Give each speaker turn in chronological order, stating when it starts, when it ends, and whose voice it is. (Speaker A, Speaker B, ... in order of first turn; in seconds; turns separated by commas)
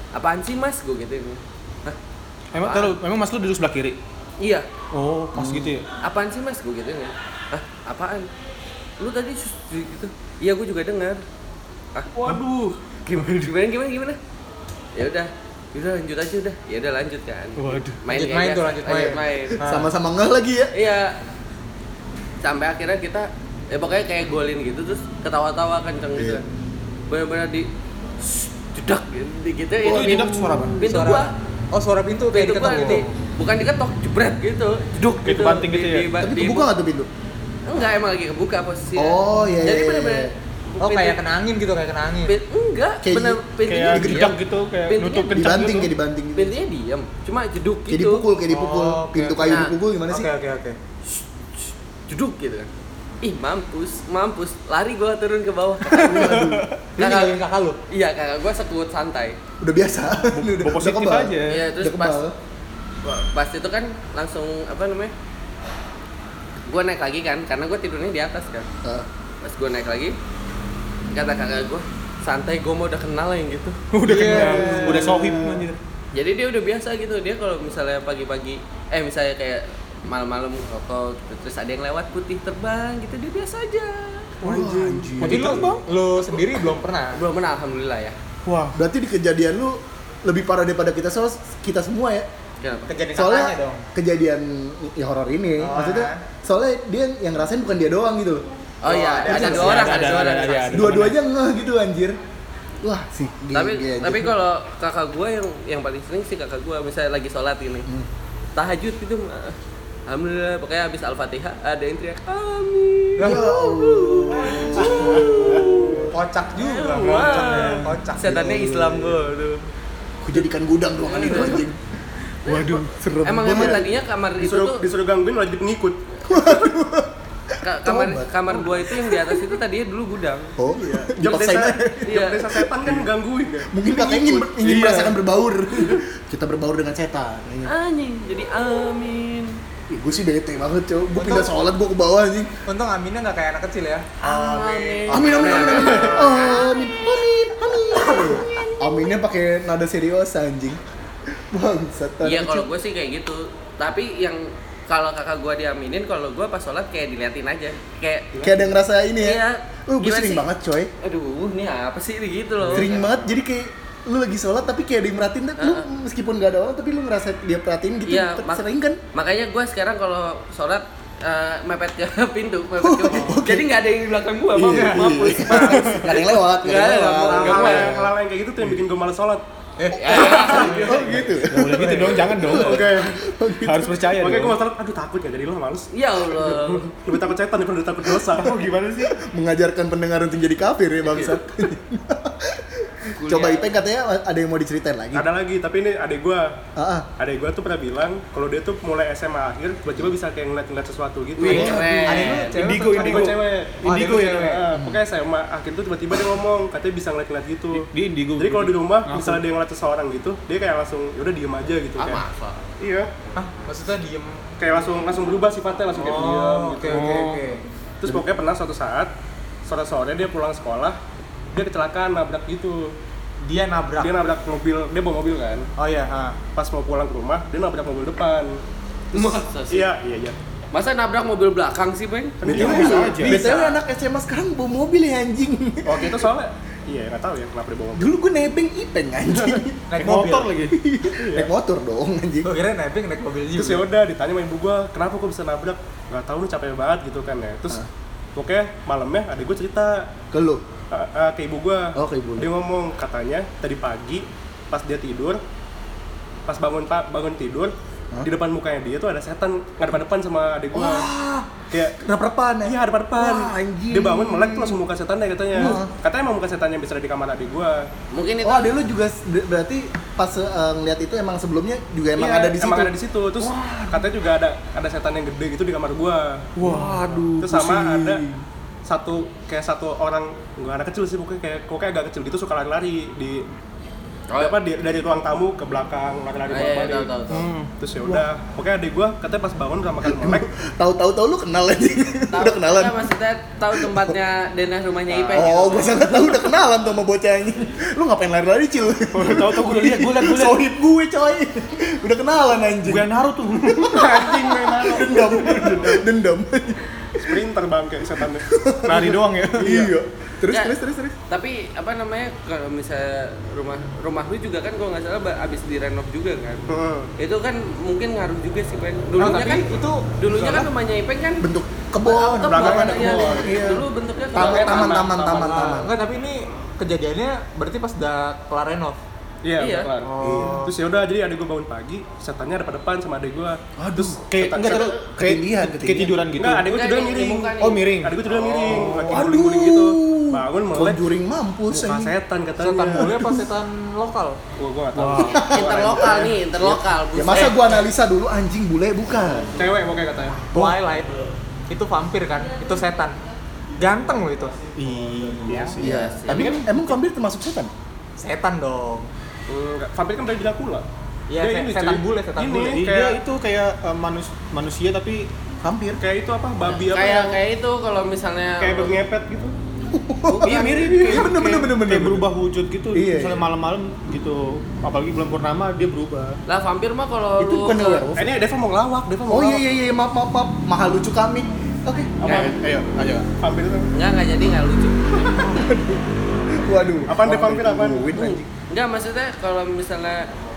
Speaker A: 0.1-2.0, Speaker B: 2.5-4.0, Speaker A: 2.6-3.0, Speaker A: 4.4-4.7, Speaker B: 4.9-5.9, Speaker C: 5.3-5.7, Speaker A: 6.0-8.3, Speaker A: 9.0-11.2, Speaker A: 11.9-12.4, Speaker A: 13.1-14.2, Speaker B: 13.1-13.5, Speaker A: 14.9-19.6, Speaker B: 17.6-18.0, Speaker D: 18.1-19.9, Speaker C: 19.6-20.7, Speaker A: 20.7-21.1, Speaker A: 22.4-26.4, Speaker C: 26.2-26.4, Speaker A: 27.1-27.7, Speaker A: 28.2-31.3, Speaker B: 29.8-30.8, Speaker D: 30.8-33.1, Speaker A: 32.3-36.7, Speaker B: 35.0-36.1, Speaker C: 36.2-37.1, Speaker A: 37.7-41.2, Speaker C: 39.0-40.3, Speaker D: 40.8-42.4, Speaker A: 42.3-45.5, Speaker C: 43.0-44.3, Speaker B: 43.7-45.9, Speaker C: 45.3-46.5, Speaker A: 46.4-48.2, Speaker C: 47.9-50.3, Speaker D: 48.5-50.8, Speaker A: 49.5-49.7, Speaker A: 52.1-52.7, Speaker A: 53.2-57.4, Speaker B: 55.9-56.8, Speaker C: 56.0-56.7, Speaker D: 57.0-57.8, Speaker A: 57.9-59.4, Speaker C: 59.6-62.3, Speaker B: 60.3-61.7, Speaker A: 61.5-62.2, Speaker A: 63.0-65.1, Speaker A: 66.7-68.7, Speaker A: 69.4-70.2, Speaker A: 71.1-73.8, Speaker B: 73.9-75.8, Speaker D: 74.0-75.6, Speaker C: 74.3-75.1, Speaker A: 76.1-84.4, Speaker C: 84.4-85.7, Speaker B: 84.4-85.8, Speaker D: 85.2-87.2, Speaker A: 87.1-88.2, Speaker B: 88.5-88.7, Speaker C: 88.7-92.3, Speaker A: 92.6-92.9, Speaker D: 92.9-93.9, Speaker C: 93.1-98.5, Speaker D: 95.6-96.2, Speaker A: 98.8-101.1, Speaker D: 98.9-100.6, Speaker C: 99.2-99.8, Speaker B: 99.3-101.2, Speaker C: 100.7-102.2, Speaker C: 102.8-104.3, Speaker A: 103.5-107.9, Speaker A: 108.6-109.6, Speaker A: 110.1-119.6, Speaker D: 113.2-113.5, Speaker C: 113.2-116.1, Speaker E: 114.8-116.0, Speaker B: 115.4-115.7, Speaker D: 116.1-118.5, Speaker B: 117.0-118.0, Speaker C: 118.2-119.3, Speaker C: 120.2-121.8, Speaker A: 121.0-121.7, Speaker A: 122.5-124.8, Speaker B: 122.5-123.0, Speaker C: 123.0-123.9, Speaker E: 123.5-123.8, Speaker E: 124.4-126.3, Speaker C: 126.3-129.4, Speaker A: 127.6-130.6, Speaker C: 130.6-132.1, Speaker E: 131.2-134.4, Speaker B: 131.2-131.6, Speaker A: 132.1-132.6, Speaker C: 133.7-137.7, Speaker B: 134.6-135.2, Speaker A: 137.7-139.6, Speaker C: 139.9-142.5, Speaker D: 141.2-141.5, Speaker D: 142.7-146.1, Speaker A: 144.2-146.9, Speaker C: 145.1-150.8, Speaker E: 145.5-146.3, Speaker A: 147.9-149.1, Speaker C: 151.5-152.7, Speaker A: 152.2-158.3, Speaker E: 158.3-158.6, Speaker C: 158.4-160.9, Speaker A: 159.2-160.5, Speaker A: 161.0-163.3, Speaker C: 162.7-169.0, Speaker A: 165.6-165.8, Speaker A: 168.1-168.6, Speaker A: 169.1-178.0, Speaker C: 172.8-173.7, Speaker C: 174.5-178.1, Speaker E: 177.2-179.4, Speaker D: 179.8-181.2, Speaker A: 179.9-181.2, Speaker E: 180.1-181.1, Speaker C: 180.7-184.1, Speaker B: 180.8-182.9, Speaker E: 182.5-183.2, Speaker B: 183.6-184.6, Speaker E: 184.2-188.6, Speaker A: 185.9-186.9, Speaker B: 188.4-189.2, Speaker C: 189.1-195.3, Speaker A: 191.1-191.4, Speaker A: 193.2-193.7, Speaker E: 195.1-196.6, Speaker C: 196.8-197.1, Speaker E: 197.2-202.0, Speaker A: 201.4-202.6, Speaker D: 201.4-204.6, Speaker C: 201.5-202.2, Speaker B: 202.4-204.4, Speaker E: 203.0-212.2, Speaker B: 207.7-209.4, Speaker A: 212.0-212.6, Speaker E: 212.8-213.1, Speaker D: 213.3-214.5, Speaker E: 214.6-217.3, Speaker D: 215.9-217.6, Speaker B: 216.9-217.4, Speaker E: 218.0-219.1, Speaker E: 219.7-221.0, Speaker E: 221.5-222.9, Speaker D: 223.4-224.1, Speaker E: 224.0-225.7, Speaker D: 225.8-226.4, Speaker E: 226.6-228.6, Speaker A: 229.1-229.9, Speaker E: 229.1-230.4, Speaker A: 230.7-233.8, Speaker E: 232.4-233.2, Speaker C: 232.5-236.3, Speaker B: 232.5-233.4, Speaker D: 232.8-233.2, Speaker E: 235.8-238.1, Speaker C: 238.0-239.8, Speaker E: 239.3-239.6, Speaker D: 239.9-240.6, Speaker B: 240.0-240.8, Speaker C: 240.7-242.5, Speaker E: 241.1-241.5, Speaker D: 242.4-243.8, Speaker E: 243.6-247.8, Speaker E: 248.3-250.1, Speaker C: 250.3-250.6, Speaker E: 250.9-255.4, Speaker C: 251.9-252.5, Speaker E: 256.5-261.1, Speaker C: 260.7-264.8, Speaker E: 261.7-262.0, Speaker E: 262.6-267.9, Speaker C: 265.5-265.9, Speaker A: 268.1-268.7, Speaker C: 268.4-274.1, Speaker E: 272.2-276.5, Speaker B: 276.6-277.4, Speaker C: 276.6-278.4, Speaker E: 277.4-278.2, Speaker E: 278.9-283.5, Speaker A: 284.3-284.6, Speaker E: 284.4-287.1, Speaker A: 286.5-287.5, Speaker B: 287.3-287.7, Speaker E: 287.8-290.5, Speaker C: 290.0-293.1, Speaker A: 292.3-296.3, Speaker C: 293.7-294.2, Speaker E: 295.1-295.9, Speaker C: 295.3-303.1, Speaker B: 299.1-300.6, Speaker B: 302.9-305.3, Speaker C: 303.7-307.4, Speaker E: 303.9-306.1, Speaker E: 307.2-308.5, Speaker C: 308.5-311.1, Speaker B: 308.9-309.8, Speaker E: 309.6-309.9, Speaker A: 310.5-310.8, Speaker A: 311.3-316.6, Speaker E: 316.7-317.1, Speaker A: 317.2-321.5, Speaker D: 319.2-320.6, Speaker C: 321.4-325.9, Speaker A: 322.0-325.6, Speaker E: 322.4-323.6, Speaker E: 324.4-325.5, Speaker D: 325.3-329.0, Speaker E: 329.4-334.9, Speaker A: 329.6-329.9, Speaker D: 330.0-330.7, Speaker C: 330.2-330.6, Speaker C: 333.8-336.3, Speaker B: 334.3-336.7, Speaker A: 334.4-334.9, Speaker E: 336.4-341.1, Speaker A: 336.7-337.9, Speaker B: 337.6-339.3, Speaker C: 339.0-342.2, Speaker E: 341.7-343.3, Speaker D: 342.6-344.4, Speaker C: 343.0-343.4, Speaker E: 344.6-346.4, Speaker B: 344.9-345.5, Speaker C: 345.2-349.6, Speaker A: 345.4-347.8, Speaker E: 349.6-350.4, Speaker D: 350.5-351.1, Speaker D: 351.7-353.2, Speaker D: 353.8-354.6, Speaker B: 354.8-355.9, Speaker A: 355.8-356.7, Speaker C: 355.8-357.7, Speaker D: 358.2-359.1, Speaker E: 359.5-360.9, Speaker D: 361.3-362.8, Speaker E: 361.4-363.2, Speaker B: 362.7-365.3, Speaker C: 365.6-366.0, Speaker E: 366.0-367.4, Speaker A: 366.7-368.9, Speaker E: 368.6-369.5, Speaker C: 369.9-372.3, Speaker A: 370.3-370.7, Speaker B: 370.4-376.4, Speaker E: 370.5-371.3, Speaker C: 372.9-373.5, Speaker A: 376.5-378.1, Speaker C: 377.4-378.3, Speaker E: 378.2-379.7, Speaker C: 379.3-382.2, Speaker E: 382.2-382.6, Speaker B: 382.2-383.3, Speaker E: 383.4-383.9, Speaker A: 383.9-385.0, Speaker C: 385.2-388.5, Speaker E: 387.1-388.2, Speaker A: 388.2-390.3